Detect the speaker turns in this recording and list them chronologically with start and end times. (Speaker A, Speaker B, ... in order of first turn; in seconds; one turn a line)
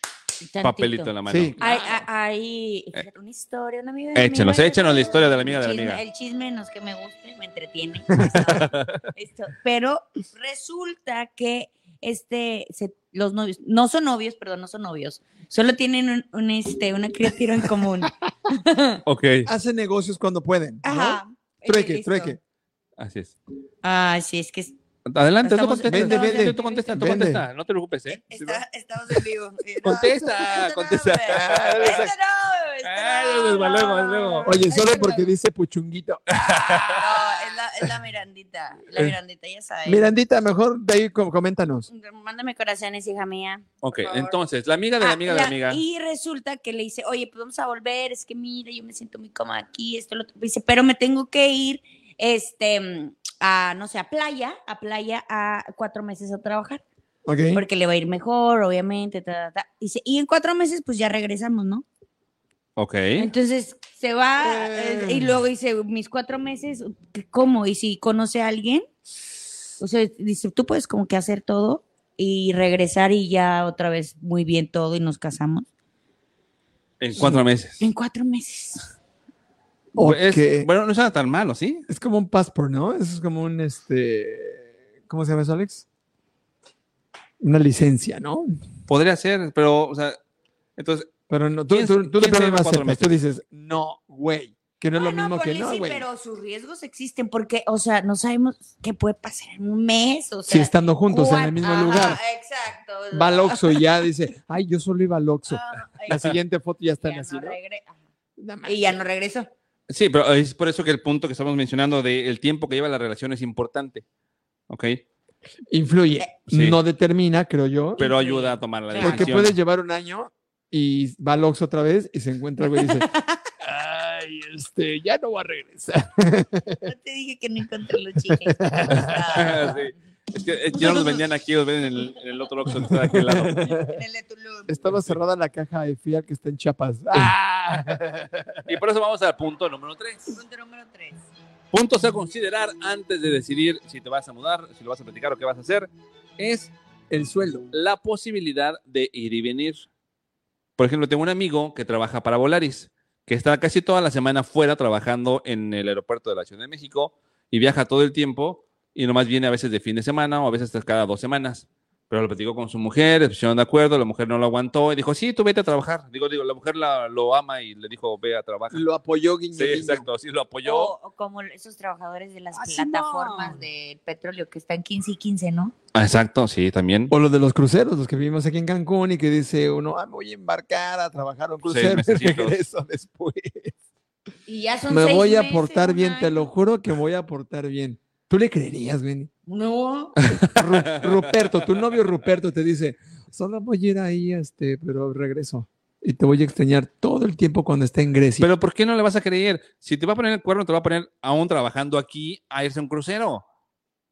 Speaker A: 0.4-19.0
Speaker B: 0.6-2.0
Speaker C: 1.3-1.6
Speaker B: 4.2-6.0
Speaker C: 8.2-8.5
Speaker B: 8.5-9.0
Speaker B: 19.1-19.5
Speaker C: 19.4-22.4
Speaker A: 20.8-22.4
Speaker B: 23.0-23.4
Speaker A: 23.8-24.8
Speaker B: 25.1-28.6
Speaker A: 25.4-26.9
Speaker C: 25.9-27.4
Speaker A: 28.1-35.3
Speaker B: 29.8-32.0
Speaker C: 29.9-30.1
Speaker C: 31.3-32.1
Speaker B: 32.8-34.5
Speaker C: 34.4-37.1
Speaker B: 36.3-37.0
Speaker A: 36.9-40.1
Speaker C: 39.9-41.9
Speaker A: 41.9-44.4
Speaker B: 43.8-45.8
Speaker A: 45.0-56.8
Speaker C: 57.2-57.6
Speaker A: 57.5-61.9
Speaker B: 62.8-63.3
Speaker A: 63.2-68.9
Speaker C: 64.4-65.4
Speaker A: 69.8-75.7
Speaker B: 77.0-77.8
Speaker C: 77.2-77.4
Speaker A: 77.8-78.8
Speaker C: 79.9-80.7
Speaker B: 80.0-81.9
Speaker C: 81.9-85.8
Speaker C: 87.4-88.5
Speaker B: 88.9-90.2
Speaker B: 90.8-91.1
Speaker C: 91.3-96.1
Speaker B: 91.7-93.1
Speaker A: 94.9-103.8
Speaker C: 100.5-102.2
Speaker C: 103.1-107.6
Speaker A: 105.5-106.2
Speaker A: 107.0-108.0
Speaker C: 108.4-109.0
Speaker A: 108.6-109.5
Speaker B: 109.9-114.0
Speaker B: 114.7-115.0
Speaker C: 115.7-118.0
Speaker B: 116.5-116.8
Speaker A: 118.0-119.3
Speaker B: 118.0-119.6
Speaker C: 119.0-123.1
Speaker A: 122.8-123.4
Speaker C: 123.6-126.8
Speaker A: 126.8-129.9
Speaker C: 128.3-129.8
Speaker B: 128.9-133.7
Speaker A: 130.7-131.2
Speaker C: 132.7-134.0
Speaker A: 133.6-134.8
Speaker C: 134.7-138.7
Speaker B: 137.1-137.9
Speaker B: 138.7-140.4
Speaker A: 140.3-141.3
Speaker B: 141.7-146.7
Speaker C: 147.1-147.7
Speaker B: 147.7-149.9
Speaker B: 150.8-168.8
Speaker C: 168.7-170.1
Speaker B: 169.6-170.9
Speaker A: 170.6-175.8
Speaker C: 172.6-173.6
Speaker B: 175.9-177.1
Speaker C: 177.1-183.8
Speaker B: 181.6-182.6
Speaker A: 184.5-186.5
Speaker C: 184.9-189.3
Speaker A: 189.5-190.2
Speaker B: 190.3-191.3
Speaker C: 190.3-198.5
Speaker B: 198.4-203.4